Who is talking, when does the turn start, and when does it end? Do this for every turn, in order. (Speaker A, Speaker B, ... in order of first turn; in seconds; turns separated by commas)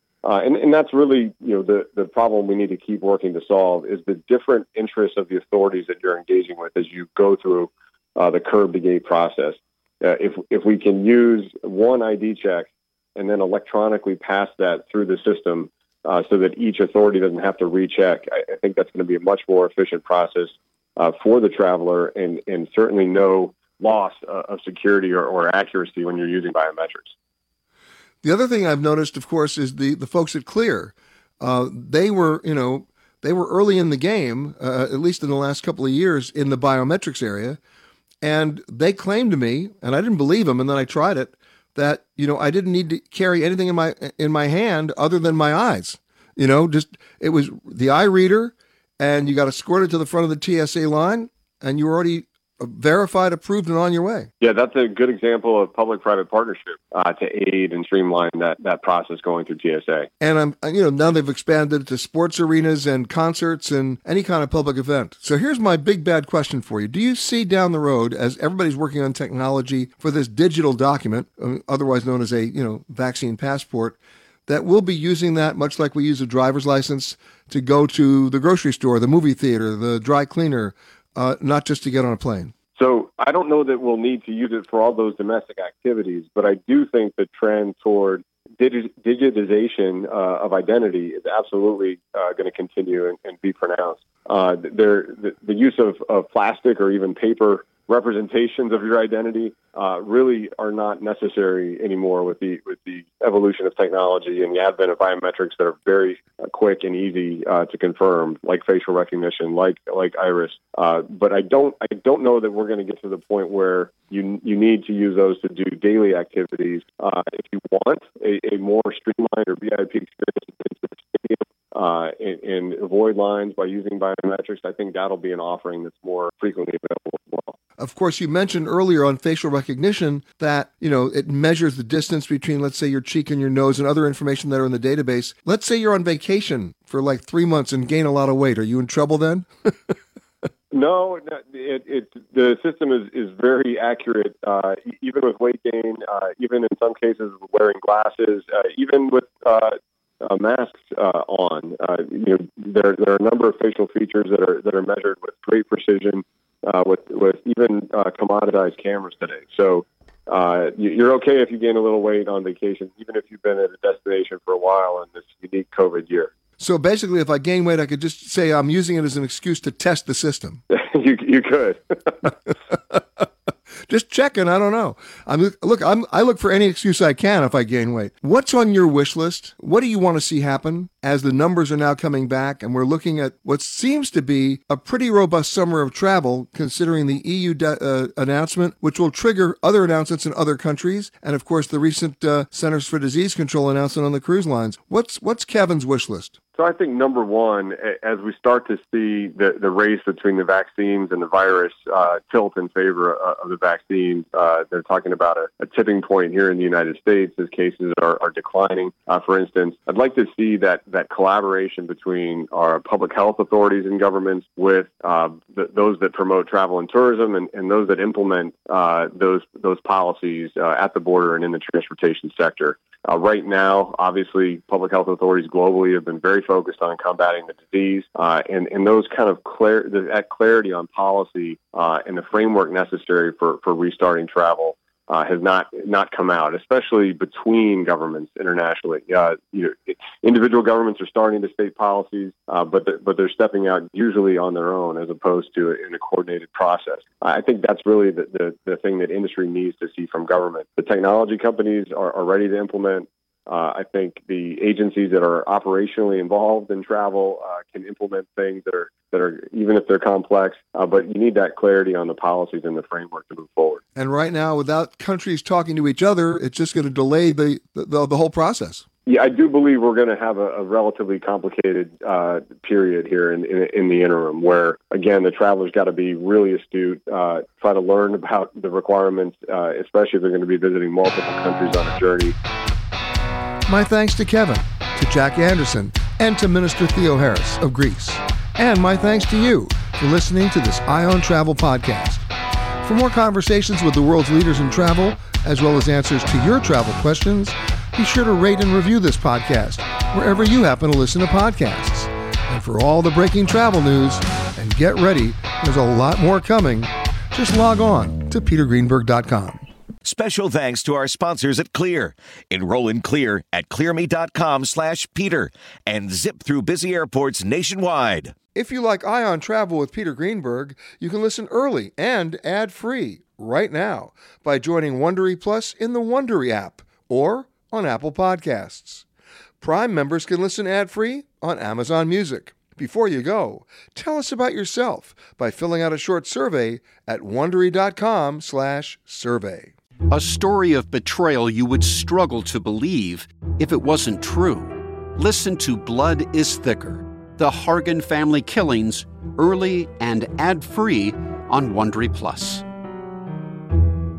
Speaker A: 0.2-27.1, Speaker B: 28.2-37.6, Speaker B: 38.2-54.3, Speaker A: 54.4-60.1, Speaker B: 60.2-82.5, Speaker A: 82.8-127.5, Speaker B: 127.8-139.7, Speaker A: 140.7-166.3, Speaker B: 166.6-170.6, Speaker A: 170.7-172.3, Speaker B: 173.9-196.4, Speaker A: 196.6-263.8, Speaker B: 263.9-268.8, Speaker A: 269.1-282.4, Speaker B: 283.7-292.3, Speaker B: 292.8-309.6, Speaker C: 310.0-318.4, Speaker B: 318.5-329.0, Speaker B: 329.6-339.7, Speaker D: 340.1-352.6